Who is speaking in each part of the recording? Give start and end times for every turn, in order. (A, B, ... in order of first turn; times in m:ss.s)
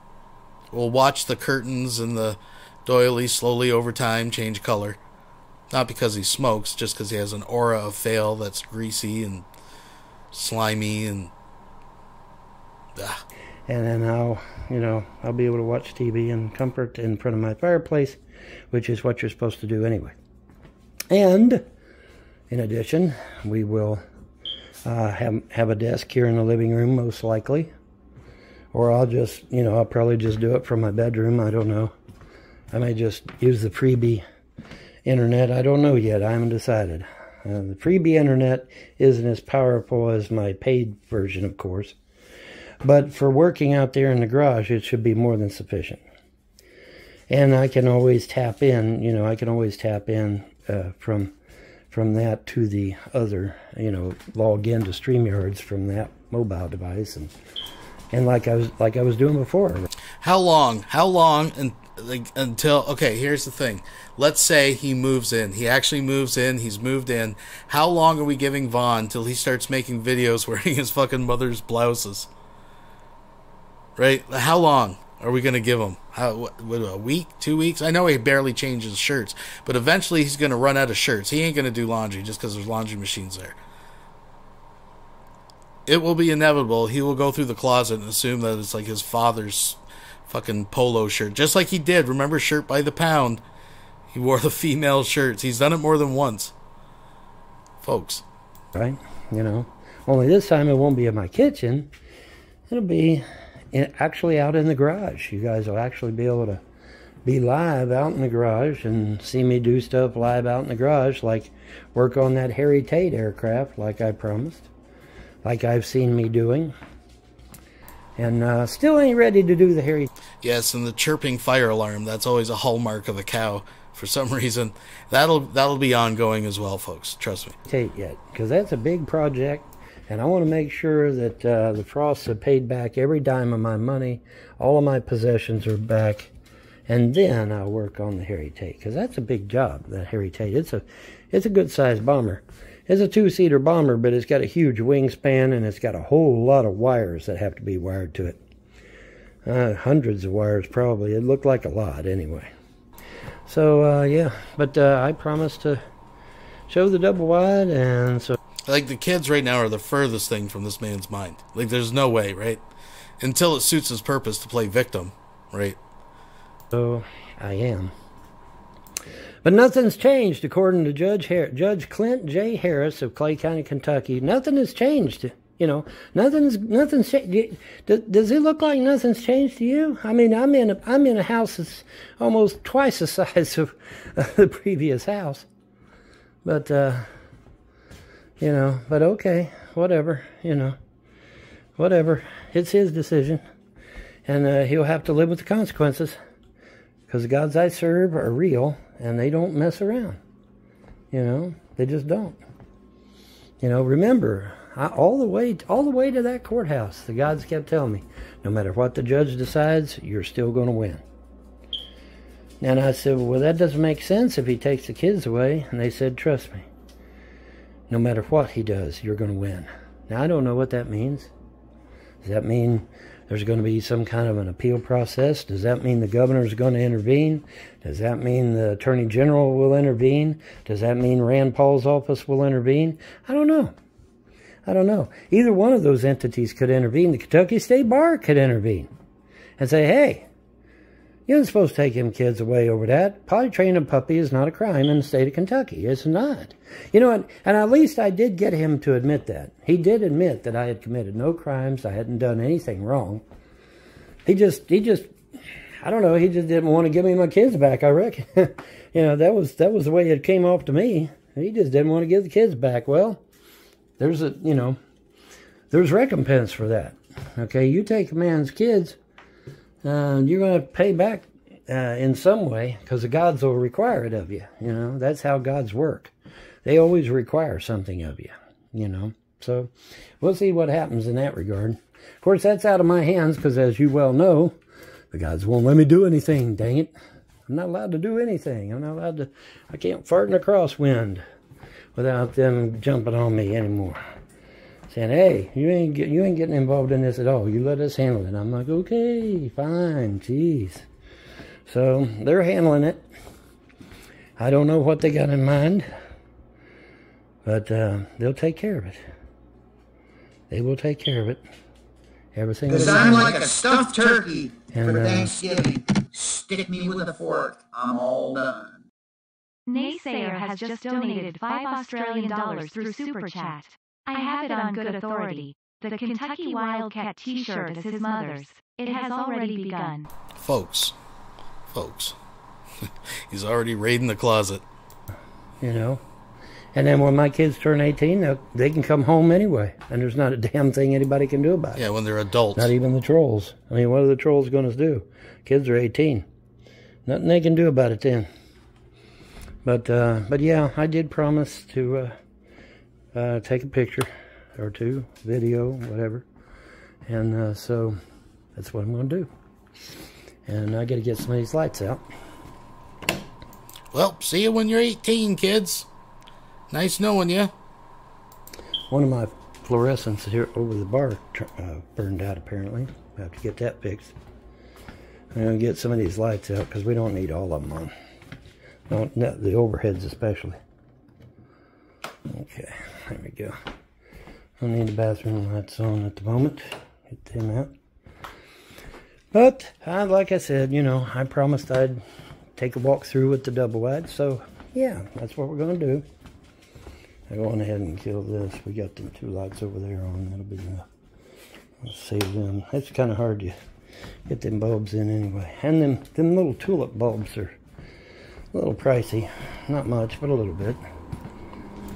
0:00.7-0:05.0 A
0:05.7-0:09.4 A
0:10.3-0:11.3 A
0:13.0-0:13.2 A
0:13.7-0:18.2 B
0:18.7-0:20.2 B
0:21.1-0:21.6 B
0:22.5-0:24.0 B
0:24.8-0:27.7 B
0:28.7-0:31.9 B
0:32.7-0:34.2 B
0:35.0-0:42.0 B
0:42.8-0:46.0 B
0:47.3-0:51.3 B
0:51.9-0:57.3 B
0:58.1-0:59.9 B
1:00.2-1:12.3 A
1:14.0-1:23.6 A
1:25.8-1:33.4 A
1:34.1-1:36.5 A
1:37.8-1:38.2 A
1:38.7-1:41.9 B
1:42.7-1:46.6 B
1:47.2-1:54.7 B
1:55.4-1:56.7 B
1:58.2-2:00.1 B
2:00.4-2:07.6 A
2:07.7-2:16.3 B
2:16.9-2:28.4 B
2:29.4-2:32.5 B
2:33.4-2:35.8 B
2:36.7-2:38.4 B
2:38.7-2:42.6 A
2:43.2-2:45.8 A
2:46.7-2:47.9 B
2:49.4-3:05.5 B
3:06.4-3:07.1 B
3:08.4-3:10.8 B
3:11.8-3:13.4 B
3:14.2-3:16.2 B
3:17.1-3:20.2 B
3:21.1-3:22.4 B
3:23.6-3:31.0 B
3:32.6-3:36.7 B
3:37.9-3:41.3 B
3:42.2-3:53.7 B
3:54.6-3:58.9 B
3:59.6-4:00.3 B
4:01.3-4:13.2 B
4:14.2-4:15.1 B
4:15.8-4:23.2 B
4:24.0-4:24.8 B
4:25.7-4:29.0 B
4:29.8-4:36.1 B
4:36.6-4:44.6 B
4:45.1-4:46.9 B
4:47.5-4:51.2 B
4:51.9-4:54.0 B
4:54.9-5:00.9 B
5:01.7-5:03.1 B
5:04.4-5:05.9 B
5:07.4-5:09.0 B
5:10.5-5:11.4 B
5:12.3-5:13.4 B
5:12.8-5:14.5 C
5:14.7-5:15.4 B
5:15.1-5:18.6 C
5:19.7-5:30.1 D
5:30.4-5:30.9 A
5:31.7-5:32.1 A
5:33.3-5:34.6 A
5:35.6-5:36.0 B
5:36.7-5:41.8 B
5:41.8-5:42.7 A
5:42.5-5:46.2 B
5:47.0-5:48.3 B
5:49.6-5:52.2 B
5:53.1-5:56.2 B
5:57.1-5:58.0 B
5:58.5-5:59.3 B
6:00.4-6:02.0 B
6:03.9-6:05.8 A
6:06.7-6:07.5 A
6:08.9-6:14.1 B
6:15.3-6:17.9 B
6:18.9-6:20.6 B
6:22.2-6:23.6 B
6:24.6-6:27.7 B
6:29.3-6:32.0 B
6:32.6-6:36.0 B
6:37.3-6:40.9 B
6:41.8-6:43.6 B
6:44.3-6:47.6 B
6:48.5-6:50.8 B